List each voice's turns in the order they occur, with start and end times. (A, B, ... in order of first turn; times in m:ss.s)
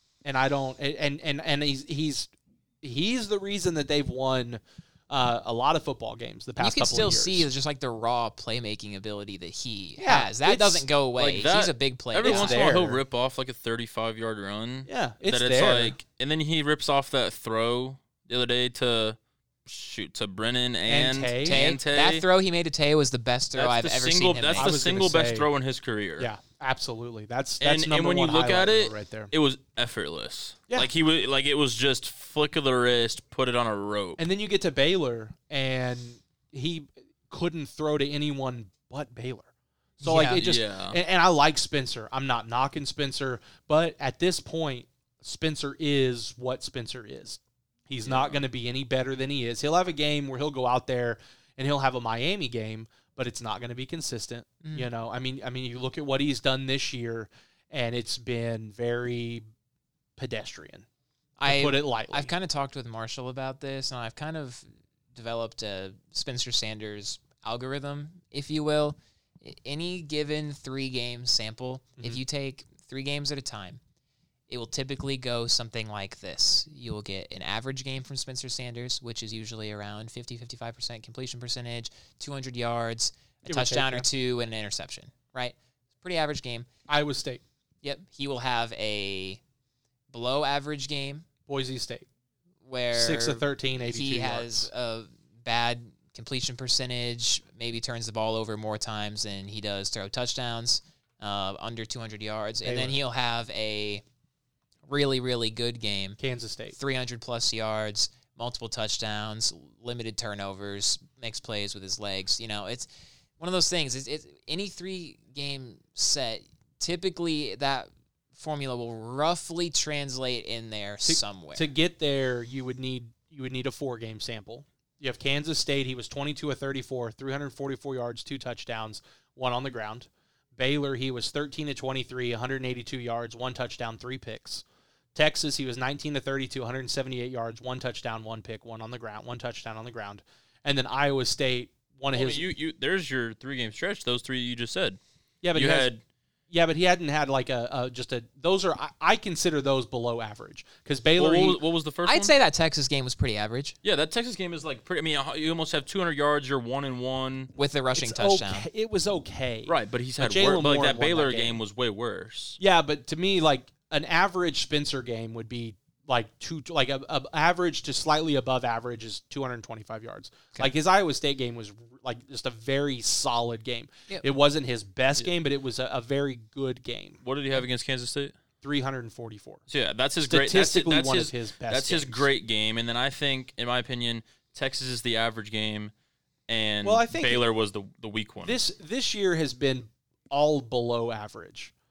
0:00.2-0:07.5 A
0:06.6-0:12.8 B
0:10.0-0:10.8 A
0:11.2-0:22.3 C
0:12.2-0:13.0 A
0:14.9-0:16.0 A
0:20.9-0:21.6 A
0:21.4-0:24.8 B
0:23.6-0:26.3 C
0:24.6-0:25.5 A
0:26.2-0:29.3 A
0:27.6-0:34.2 C
0:34.2-0:59.4 A
0:40.0-0:40.4 B
0:40.4-0:41.0 C
0:48.1-0:48.4 C
1:00.2-1:00.9 A
1:01.4-1:13.8 B
1:01.5-1:02.3 A
1:14.5-1:26.7 B
1:23.5-1:24.1 A
1:26.9-1:27.4 A
1:27.8-1:29.4 B
1:30.1-1:31.3 B
1:31.5-1:32.1 A
1:32.6-1:44.0 B
1:32.9-1:34.7 A
1:42.6-1:43.0 A
1:44.9-1:46.2 B
1:46.2-1:46.8 A
1:46.8-1:52.9 B
1:53.4-2:01.7 B
2:01.0-2:14.6 A
2:15.2-2:22.5 A
2:22.1-2:25.0 C
2:25.4-2:25.9 A
2:25.5-2:26.0 C
2:26.5-2:31.6 A
2:31.2-2:32.3 C
2:32.0-2:33.8 B
2:33.8-2:37.5 C
2:37.6-2:38.7 B
2:38.0-2:41.6 A
2:39.7-2:42.6 C
2:42.6-2:57.2 A
2:57.2-2:58.4 C
2:58.6-2:59.6 A
2:59.7-3:05.9 C
3:00.2-3:02.3 A
3:06.5-3:08.6 C
3:06.8-3:07.4 A
3:08.4-3:11.7 A